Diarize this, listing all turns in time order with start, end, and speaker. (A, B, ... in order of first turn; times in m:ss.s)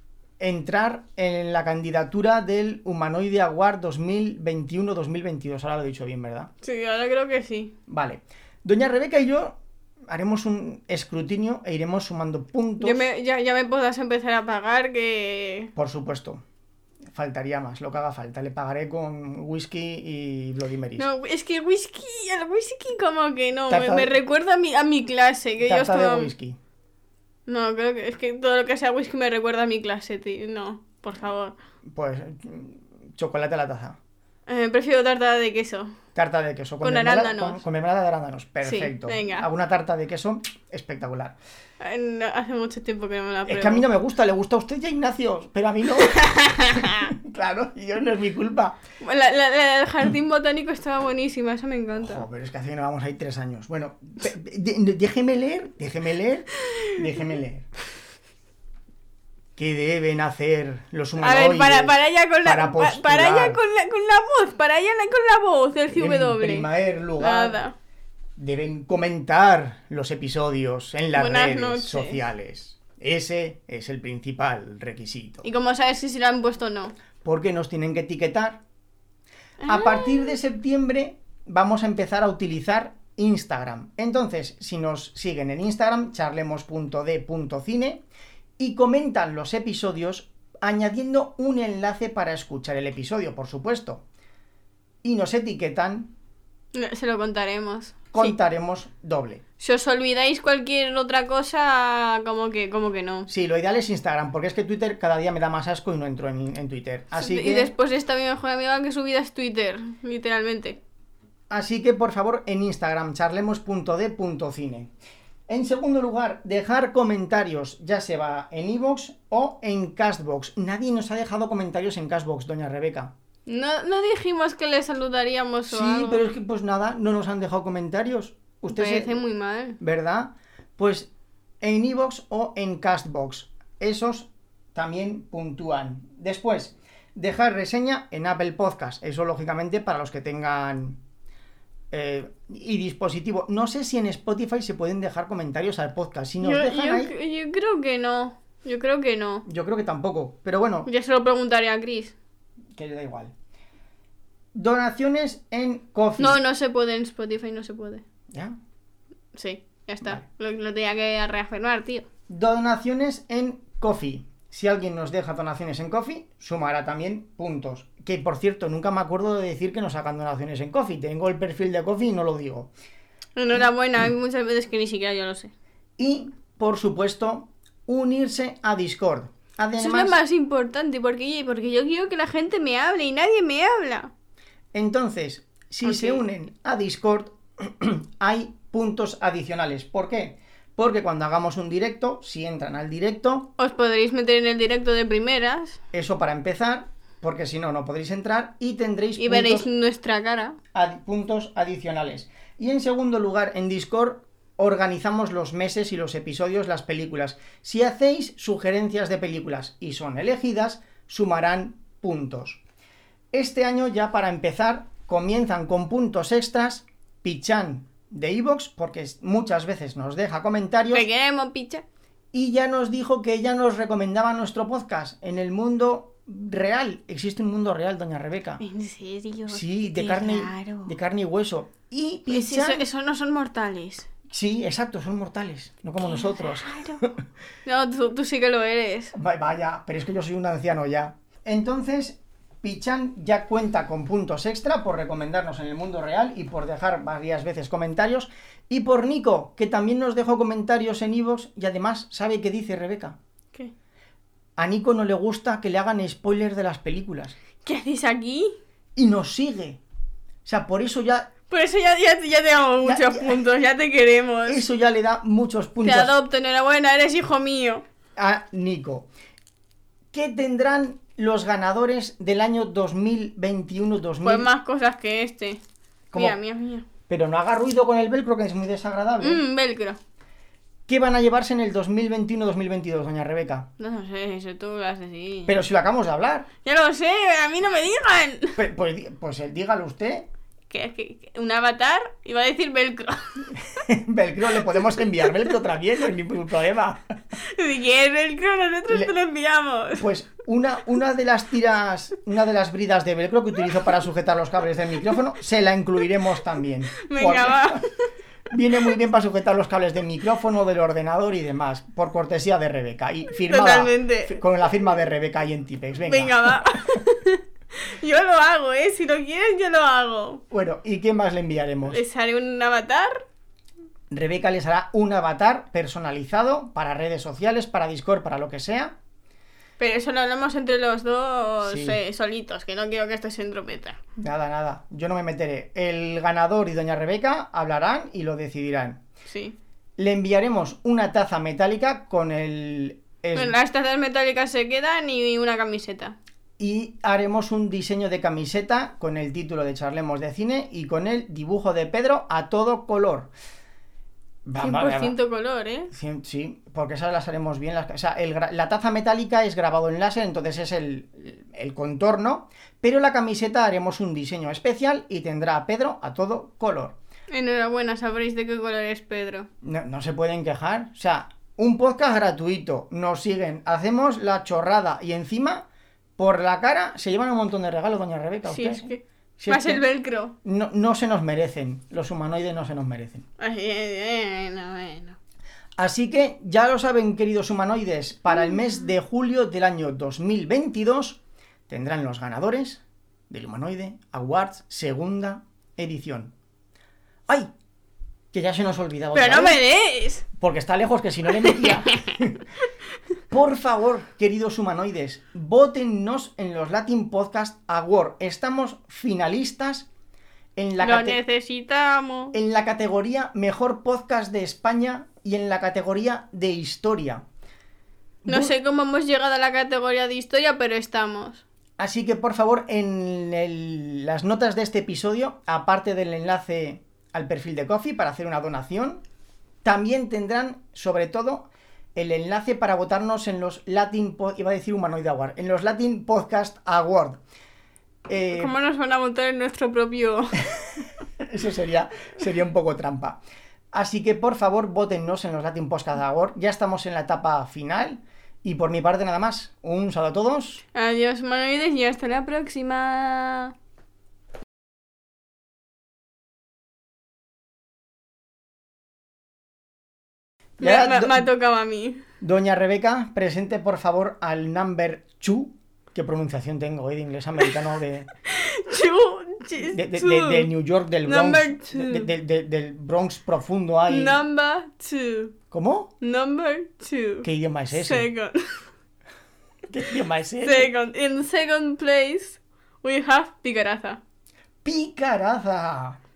0:00.4-0:06.5 A
0:06.6-0:07.7 B
0:07.9-0:13.1 A
0:12.8-0:15.7 B
0:15.8-0:16.4 A
0:17.1-0:21.1 A
0:21.0-0:26.3 B
0:23.7-0:24.1 A
0:25.6-0:26.6 A
0:27.5-0:31.5 B
0:31.9-0:34.0 A
0:34.5-0:35.9 B
0:36.1-0:41.4 A
0:36.8-0:37.6 B
0:38.6-0:39.5 B
0:41.8-0:43.8 B
0:43.4-0:48.8 A
0:46.0-0:47.0 B
0:49.0-0:52.2 B
0:52.0-0:57.6 A
0:56.7-0:57.0 B
0:59.6-1:03.6 A
1:01.2-1:06.7 B
1:05.9-1:07.6 A
1:07.2-1:07.7 B
1:08.4-1:15.4 A
1:11.1-1:12.2 B
1:15.4-1:16.9 B
1:17.2-1:18.6 A
1:19.6-1:20.4 B
1:19.6-1:28.0 A
1:28.6-1:34.0 A
1:35.0-1:36.1 A
1:36.7-1:38.4 B
1:38.1-1:39.4 A
1:39.6-1:43.3 B
1:43.3-1:47.7 A
1:47.1-1:50.8 B
1:51.5-1:54.9 A
1:55.5-2:03.1 A
2:03.4-2:06.2 B
2:05.7-2:09.2 A
2:08.7-2:09.8 B
2:09.8-2:11.1 A
2:11.6-2:21.0 A
2:21.9-2:27.1 A
2:26.4-2:29.4 B
2:29.4-2:30.9 A
2:30.8-2:32.1 B
2:32.8-2:33.3 A
2:34.5-2:36.4 A
2:36.2-2:38.0 B
2:38.3-2:38.6 A
2:39.3-2:42.1 B
2:42.3-2:52.7 A
2:53.4-2:55.5 B
2:56.0-3:00.2 A
2:59.8-3:04.1 B
3:04.7-3:13.5 A
3:05.8-3:06.2 B
3:13.6-3:15.8 B
3:15.9-3:19.6 A
3:19.2-3:20.6 B
3:20.7-3:32.6 A
3:33.3-3:41.0 A
3:40.9-3:41.8 B
3:42.3-3:48.6 A
3:48.6-3:50.9 B
3:49.5-3:52.8 A
3:52.3-3:54.1 B
3:54.3-3:57.2 A
3:56.0-3:57.0 B
3:57.6-3:59.1 B
3:59.1-4:13.2 A
4:14.6-4:17.3 A
4:17.6-4:18.5 B
4:19.0-4:19.8 A
4:20.4-4:21.3 A
4:21.5-4:24.6 B
4:22.8-4:23.4 A
4:24.5-4:26.1 A
4:25.8-4:27.8 B
4:28.2-4:29.1 A
4:30.1-4:34.5 A
4:34.2-4:35.6 B
4:36.1-4:36.4 A
4:36.1-4:36.9 B
4:37.1-4:39.4 A
4:39.2-4:40.0 B
4:40.9-4:43.7 A
4:43.8-4:45.6 B
4:45.5-4:46.5 A
4:46.6-4:48.6 B
4:48.6-4:50.3 A
4:50.7-4:53.6 B
4:53.6-4:57.1 A
4:54.6-4:55.5 B
4:57.4-5:00.0 B
4:59.9-5:07.8 A
5:07.0-5:07.9 B
5:08.5-5:16.8 A
5:13.5-5:14.4 B
5:16.0-5:20.4 B
5:20.5-5:22.0 A
5:21.9-5:23.2 B
5:24.1-5:29.0 A
5:29.8-5:34.0 B
5:31.6-5:32.0 A
5:34.2-5:39.0 A
5:39.2-5:39.6 B
5:40.0-5:43.5 A
5:43.3-5:46.1 B
5:46.6-5:53.3 A
5:54.5-5:55.2 A
5:54.6-5:55.9 B
5:55.9-6:07.0 A
6:07.3-6:09.5 B
6:09.6-6:15.7 A
6:16.2-6:19.8 A
6:18.5-6:20.3 B
6:20.4-6:23.2 A
6:23.4-6:25.2 B
6:25.8-6:36.3 A
6:38.3-6:39.6 A
6:39.1-6:40.2 B
6:40.4-6:42.4 A
6:41.4-6:42.0 B
6:43.3-6:49.9 A
6:50.6-6:51.2 A
6:50.8-6:52.4 B
6:52.3-6:57.2 A
6:58.2-6:58.5 A
6:58.3-7:01.4 B
7:01.8-7:09.0 A
7:09.6-7:17.2 A
7:18.1-7:18.5 A
7:18.3-7:20.4 B
7:21.2-7:23.2 A
7:23.7-7:30.6 A
7:30.7-7:33.5 B
7:40.6-7:41.3 A
7:40.6-7:42.0 B
7:42.2-7:48.1 A
7:48.2-7:50.5 B
7:49.6-7:54.2 A
7:51.0-7:52.1 B
7:53.9-7:55.4 B
7:55.5-7:55.9 A
7:56.0-7:58.6 B
7:57.2-7:58.1 A
7:59.7-8:00.7 A
8:00.4-8:04.0 B
8:04.6-8:06.0 A